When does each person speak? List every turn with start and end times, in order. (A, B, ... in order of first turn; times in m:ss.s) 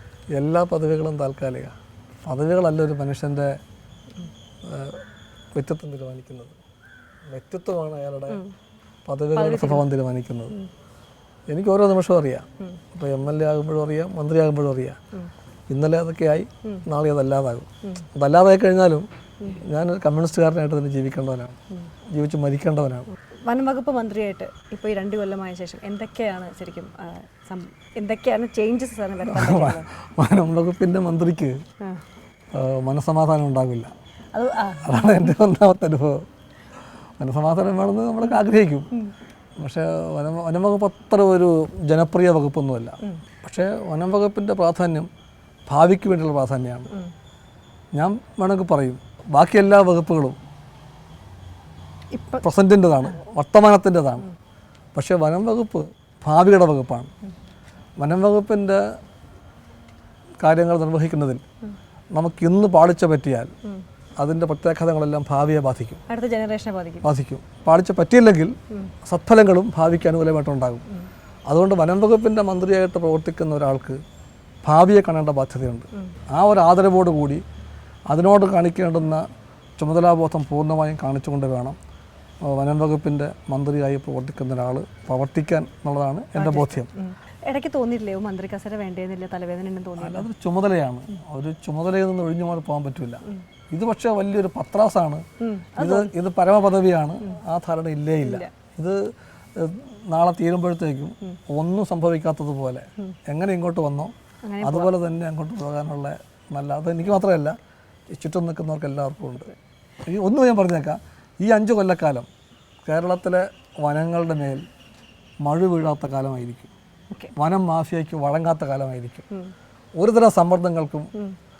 0:00.3-0:03.6 A
0:04.6-0:05.0 A
0:05.5-0:06.6 A
0:07.3-0:08.4 A
0:09.0-0:10.5 A
0:09.4-0:09.8 B
0:11.5-0:15.0 A
0:15.7-0:19.1 A
0:19.6-0:21.6 A
0:22.1-0:23.1 A
0:23.4-0:29.9 B
0:29.2-0:31.6 A
0:32.5-0:33.9 A
0:34.3-0:35.3 B
0:34.8-0:36.2 A
0:37.2-0:38.9 A
0:39.6-0:45.1 A
0:45.7-0:46.9 A
0:47.9-0:50.4 A
0:52.1-0:52.4 B
0:52.4-0:54.3 A
0:54.9-0:57.1 A
0:58.0-0:58.8 A
1:00.4-1:01.4 A
1:02.1-1:03.5 A
1:04.2-1:06.0 A
1:06.1-1:07.1 B
1:07.0-1:10.8 A
1:11.5-1:14.0 A
1:14.6-1:17.4 A
1:18.1-1:19.2 A
1:19.8-1:21.8 A
1:22.4-1:26.9 A
1:26.4-1:30.2 B
1:30.0-1:35.2 A
1:35.4-1:36.1 B
1:35.8-1:39.0 A
1:38.2-1:38.5 B
1:39.6-1:47.6 A
1:44.4-1:44.9 B
1:48.1-1:49.5 A
1:50.0-1:52.3 A
1:52.8-1:54.6 A
1:55.4-1:56.7 A
1:57.3-1:59.2 A
2:00.0-2:01.1 A